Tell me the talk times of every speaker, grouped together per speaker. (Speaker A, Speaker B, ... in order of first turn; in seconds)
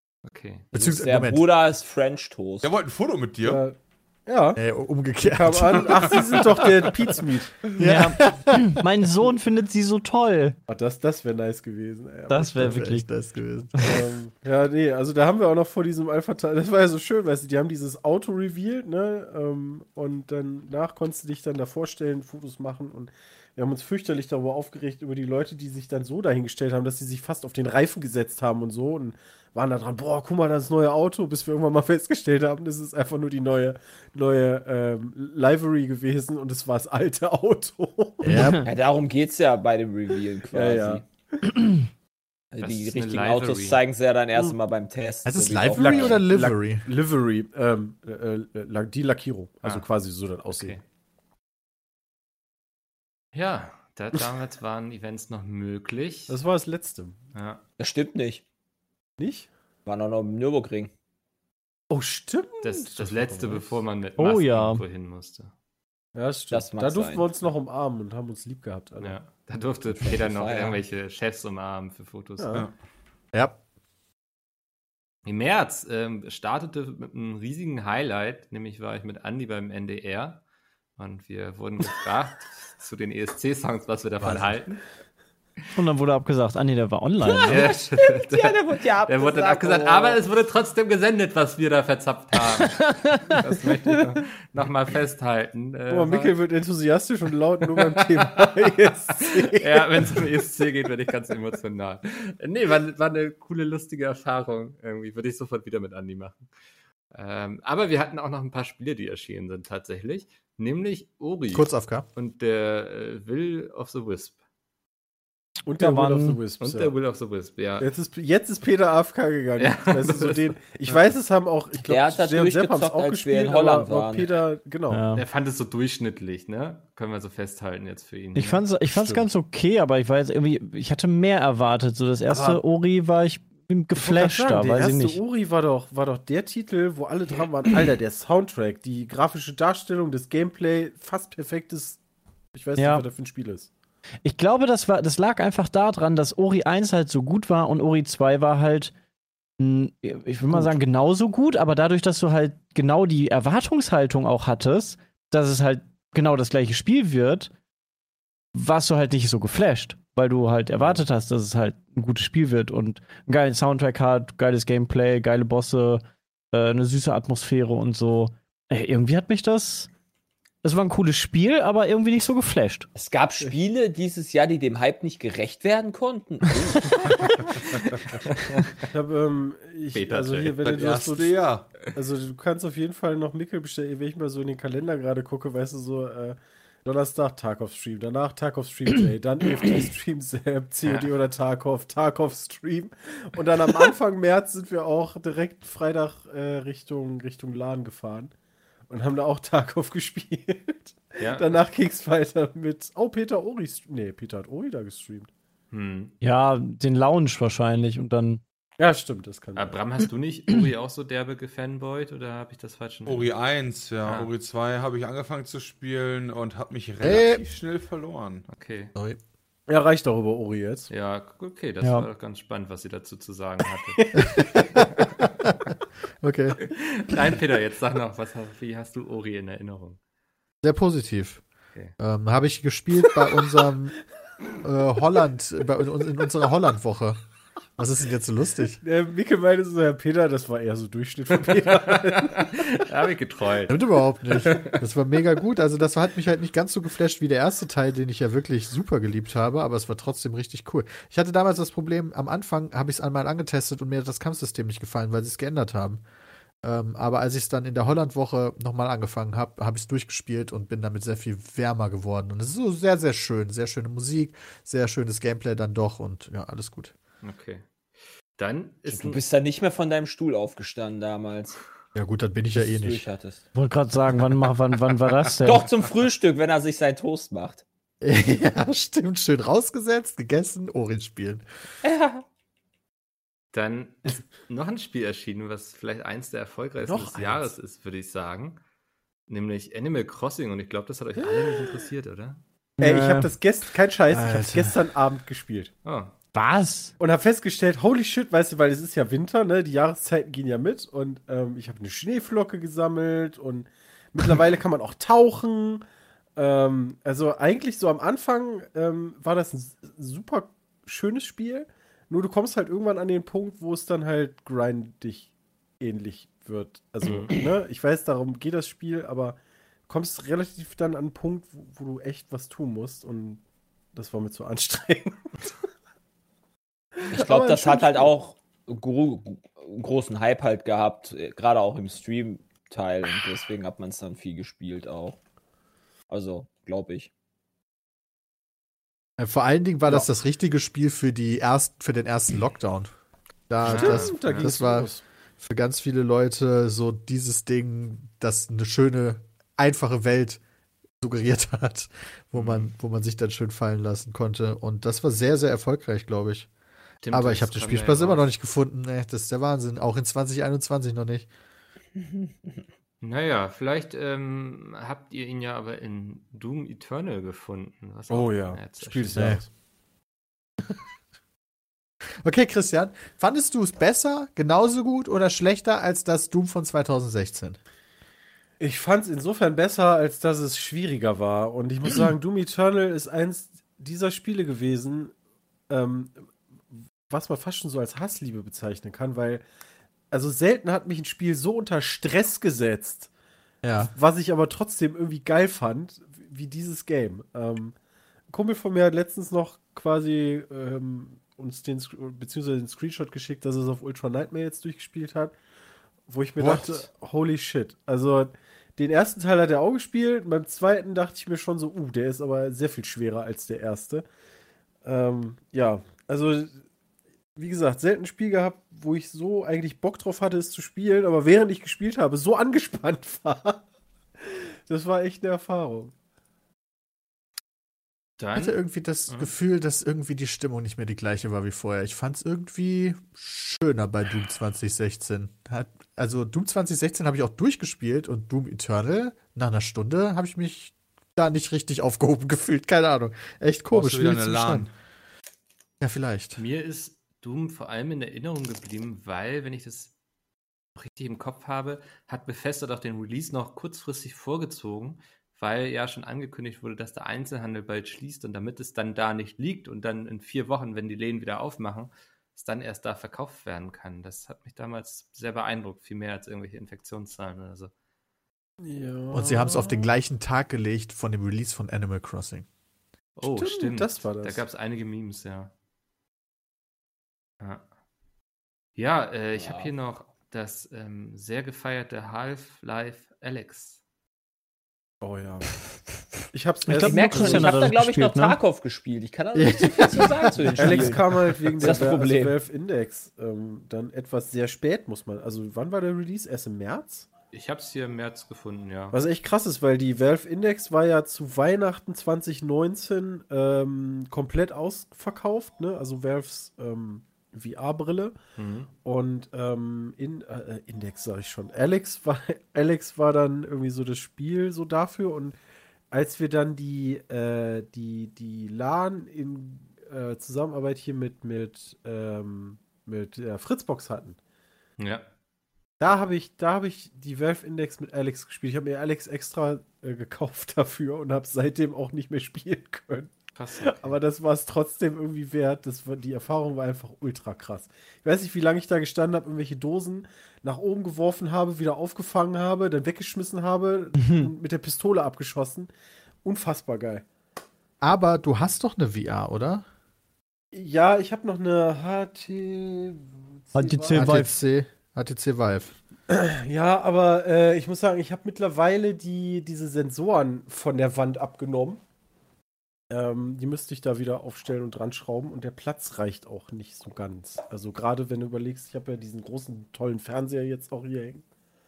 Speaker A: 0.2-0.7, 42.6-43.8, 50.5-50.8, 53.3-56.4, 57.3-57.6, 62.6-65.5, 69.0-72.6, 75.2-80.4, 81.0-84.8, 87.5-96.3, 97.7-106.4, 107.1-114.4, 116.6-117.9, 119.6-121.1, 125.1-128.6, 179.9-180.6, 201.2-201.5, 205.7-206.1, 209.6-213.3, 214.0-214.3, 218.5-218.9, 220.9-225.1, 226.7-230.0, 241.4-243.8, 244.4-244.8, 267.2-267.6, 268.4-269.2, 283.5-288.6, 289.3-292.4, 295.8-296.1, 317.0-317.3, 343.6-344.5, 352.3-352.7, 357.0-358.3, 363.0-369.3, 428.2-428.6, 446.4-449.9, 450.8-467.7, 473.2-475.5, 478.8-483.8, 497.3-499.0, 508.4-508.7, 524.8-525.0, 533.4-534.0
Speaker B: 0.7-1.4, 4.6-7.1, 7.8-8.8, 12.5-14.0, 38.2-38.6, 45.2-46.9, 73.3-73.6, 111.5-112.0, 217.0-217.4, 224.2-225.5, 226.2-226.6, 230.6-231.4, 232.0-234.0, 234.6-237.2, 237.8-238.8, 243.7-256.0, 256.6-266.9, 271.9-273.0, 278.0-281.4, 294.1-294.8, 339.2-342.9, 343.5-350.4, 351.0-356.5, 357.1-361.3, 369.1-369.4, 372.2-377.6, 393.6-393.9, 428.3-444.7, 445.8-446.4, 469.1-472.4, 489.3-491.0, 547.8-549.6, 553.9-555.7
Speaker C: 0.7-2.7, 38.6-41.0, 42.5-46.2, 57.8-58.4, 59.9-60.9, 66.5-67.3, 70.0-70.8, 87.5-90.2, 121.8-124.3, 172.9-177.3, 268.9-271.6, 272.5-273.4, 275.4-277.6, 281.8-282.2, 327.1-335.2, 336.1-337.1, 479.4-479.7, 486.8-492.4
Speaker D: 2.6-3.6, 180.6-181.8, 213.1-218.4, 443.7-444.7
Speaker E: 3.4-4.6, 5.2-7.6, 10.7-12.8, 13.8-38.5, 40.5-41.5, 45.7-50.8, 56.3-57.2, 59.2-59.5, 61.9-63.8, 66.1-69.2, 72.4-72.6, 95.9-100.3, 115.7-116.9, 117.8-125.0, 128.9-129.2, 132.3-132.6, 133.9-142.0, 142.5-143.7, 178.9-198.3, 198.9-205.3, 208.8-209.8, 219.7-220.9, 224.0-224.2, 238.8-242.8, 286.8-287.5, 292.8-295.7, 297.0-305.8, 306.4-323.4, 323.9-325.5, 327.0-328.1, 343.6-345.0, 368.1-369.5, 378.6-385.1, 385.7-386.2, 387.1-389.4, 390.1-393.1, 393.8-397.7, 398.3-405.3, 406.1-414.0, 414.8-416.6, 417.4-423.6, 424.2-425.9, 468.6-469.9, 473.3-474.4, 485.0-485.5, 486.3-487.6, 490.6-497.1, 498.9-508.2, 508.8-515.3, 515.9-524.2, 525.8-545.7, 546.2-547.0, 550.5-554.2, 556.1-561.8, 562.9-571.2
Speaker F: 7.8-10.6, 12.3-13.1, 38.3-38.7, 64.2-64.8, 85.7-87.7, 115.8-116.4, 124.9-125.2, 128.3-135.2, 142.8-143.0, 144.2-148.9, 149.6-157.5, 158.5-169.9, 170.6-172.9, 206.2-208.4, 221.8-222.1, 273.5-275.7, 292.8-293.3, 296.3-296.9, 486.7-488.4, 544.0-544.3, 553.5-554.3